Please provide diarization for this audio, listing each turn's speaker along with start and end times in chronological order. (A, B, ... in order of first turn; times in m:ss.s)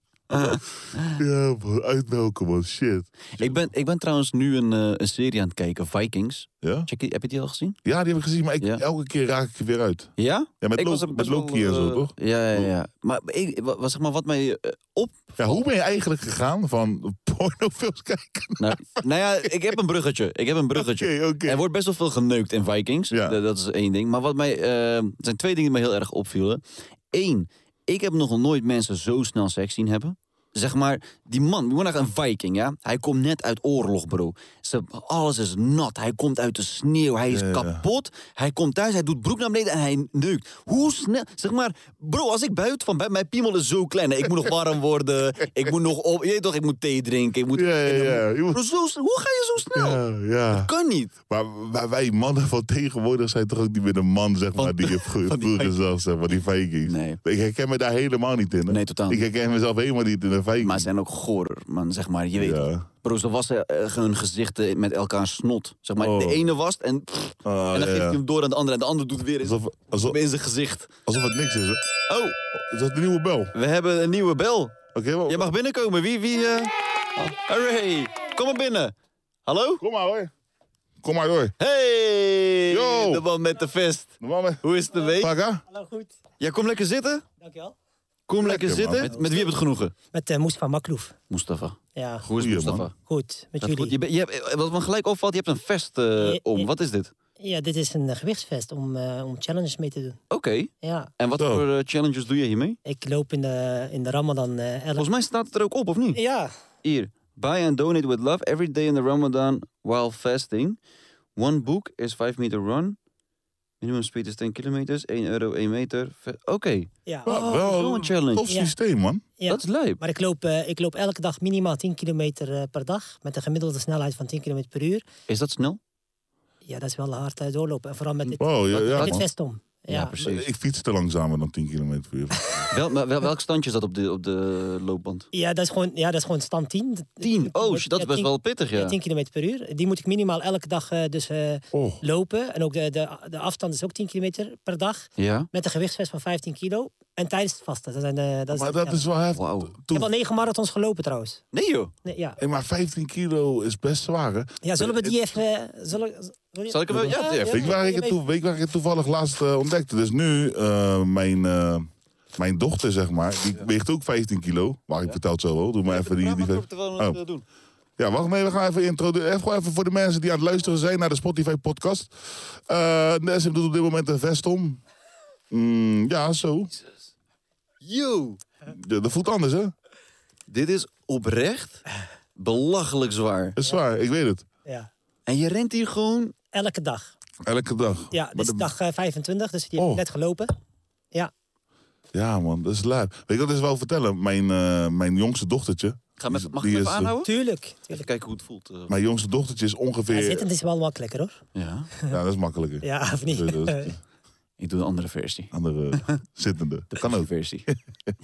0:00.3-0:01.2 A
0:00.3-0:03.6 B
0:03.4-0:07.8 A
0:06.6-0:06.9 B
0:07.8-0:12.7 B
0:10.2-0:15.6 A
0:15.4-0:19.5 B
0:18.6-0:51.1 A
0:20.8-0:21.6 B
0:23.1-0:23.4 B
0:37.3-0:37.8 B
0:47.5-0:48.6 B
0:49.7-0:50.7 B
0:51.3-1:00.9 B
0:54.6-0:55.8 A
0:56.8-0:57.2 A
0:58.7-0:59.3 A
1:00.6-1:10.9 A
1:02.4-1:02.9 B
1:06.0-1:06.4 B
1:07.4-1:08.2 B
1:09.4-1:10.2 B
1:11.1-1:11.8 B
1:12.1-1:12.4 A
1:12.6-1:13.5 B
1:13.5-1:14.8 A
1:14.9-1:15.5 B
1:15.3-1:18.9 A
1:19.5-1:19.8 A
1:19.8-1:20.3 B
1:21.0-1:21.6 B
1:21.6-1:25.3 A
1:22.7-1:23.2 B
1:24.2-1:24.6 B
1:24.9-1:26.1 C
1:25.2-1:25.6 B
1:26.4-1:27.2 A
1:27.4-1:27.8 C
1:28.3-1:29.9 A
1:28.4-1:29.1 B
1:29.0-1:29.6 C
1:30.1-1:31.2 C
1:31.3-1:32.9 A
1:32.0-1:32.3 C
1:32.4-1:32.9 B
1:33.0-1:34.0 C
1:33.6-1:37.1 A
1:36.2-1:36.7 C
1:37.4-1:40.2 C
1:40.3-1:42.8 A
1:40.8-1:41.1 C
1:41.4-1:41.6 B
1:42.8-1:45.1 C
1:45.0-1:46.2 A
1:46.1-1:46.5 C
1:46.8-1:50.8 A
1:51.4-1:53.0 A
1:53.8-1:58.5 A
1:57.1-1:57.3 C
1:57.3-1:59.3 B
1:58.5-1:58.7 C
1:59.4-2:05.0 C
1:59.5-2:00.0 A
2:05.3-2:05.8 A
2:06.6-2:10.2 C
2:08.3-2:09.2 A
2:08.4-2:09.2 B
2:09.9-2:10.5 A
2:10.2-2:12.6 B
2:12.7-2:15.3 A
2:15.3-2:29.1 C
2:17.2-2:19.0 A
2:21.7-2:22.0 B
2:25.2-2:25.5 A
2:28.5-2:30.1 B
2:29.3-2:29.8 A
2:29.9-2:31.4 C
2:31.5-2:31.9 A
2:32.0-2:32.4 C
2:32.4-2:35.2 B
2:34.6-2:38.2 C
2:36.7-2:37.7 A
2:37.5-2:47.2 B
2:45.8-2:47.4 A
2:48.0-2:54.8 B
2:55.5-2:56.7 B
2:57.8-2:58.4 A
2:58.7-2:59.7 B
3:00.5-3:01.8 A
3:02.4-3:03.6 A
3:03.6-3:04.4 B
3:05.3-3:06.3 A
3:06.5-3:07.2 C
3:07.4-3:08.7 B
3:08.1-3:10.5 C
3:09.8-3:10.0 B
3:12.1-3:17.1 B
3:16.2-3:17.3 A
3:17.2-3:18.1 C
3:17.9-3:18.9 A
3:18.9-3:20.4 B
3:20.1-3:21.4 C
3:21.6-3:21.9 A
3:22.1-3:24.0 B
3:22.8-3:23.9 C
3:24.6-3:26.2 A
3:25.5-3:28.1 B
3:26.9-3:27.7 A